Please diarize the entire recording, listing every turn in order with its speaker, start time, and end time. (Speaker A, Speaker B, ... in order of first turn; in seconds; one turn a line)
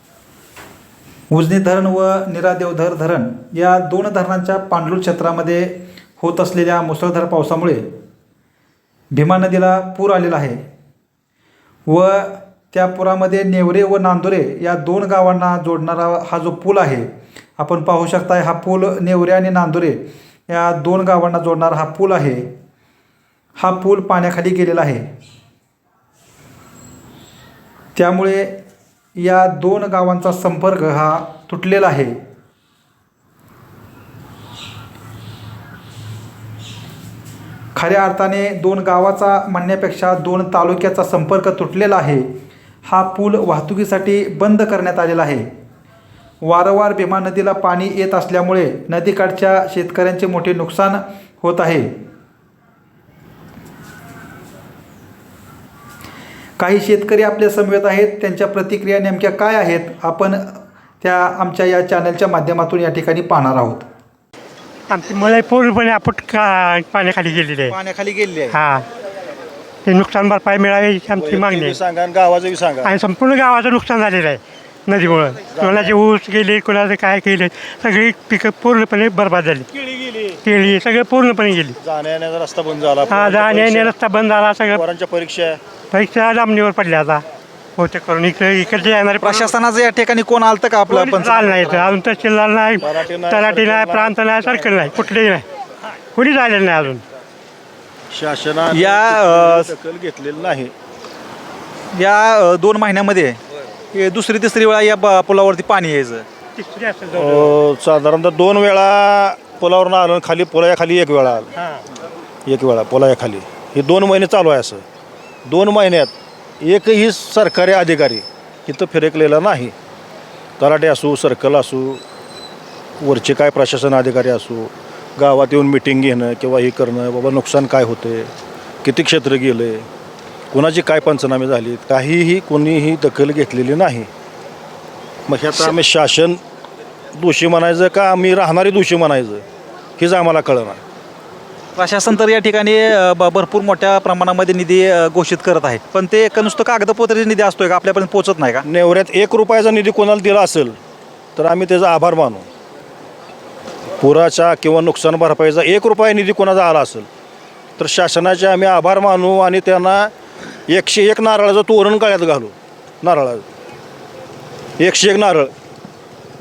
Speaker A: 1.3-7.8
Speaker A: 9.1-10.6
Speaker A: 11.9-22.5
Speaker A: 23.6-25.1
Speaker A: 28.0-28.6
Speaker A: 29.2-32.2
Speaker A: 37.8-42.3
Speaker A: 42.9-45.5
Speaker A: 46.4-51.9
Speaker A: 56.6-63.9
Speaker B: 64.9-67.8
Speaker A: 67.7-68.6
Speaker B: 68.5-68.9
Speaker B: 69.8-71.8
Speaker C: 71.2-73.0
Speaker B: 72.8-79.7
Speaker C: 75.5-76.0
Speaker C: 79.9-80.3
Speaker B: 80.4-81.8
Speaker C: 81.8-83.9
Speaker B: 83.1-84.8
Speaker C: 84.7-85.6
Speaker B: 85.9-87.2
Speaker B: 87.8-89.5
Speaker A: 89.2-92.0
Speaker B: 90.9-95.5
Speaker C: 92.8-94.7
Speaker B: 96.1-97.0
Speaker C: 98.1-100.7
Speaker A: 98.7-99.7
Speaker A: 101.9-103.4
Speaker A: 103.9-106.3
Speaker B: 106.6-107.5
Speaker C: 107.1-111.5
Speaker C: 112.5-114.8
Speaker C: 115.5-119.7
Speaker C: 120.6-122.0
Speaker C: 123.0-128.3
Speaker C: 128.8-129.9
Speaker C: 130.5-134.1
Speaker C: 135.3-136.4
Speaker C: 137.2-139.4
Speaker C: 140.0-140.8
Speaker A: 141.8-148.7
Speaker C: 148.6-150.8
Speaker C: 151.4-152.5
Speaker C: 154.0-157.1
Speaker C: 157.8-160.1
Speaker C: 160.7-163.4
Speaker C: 164.8-165.5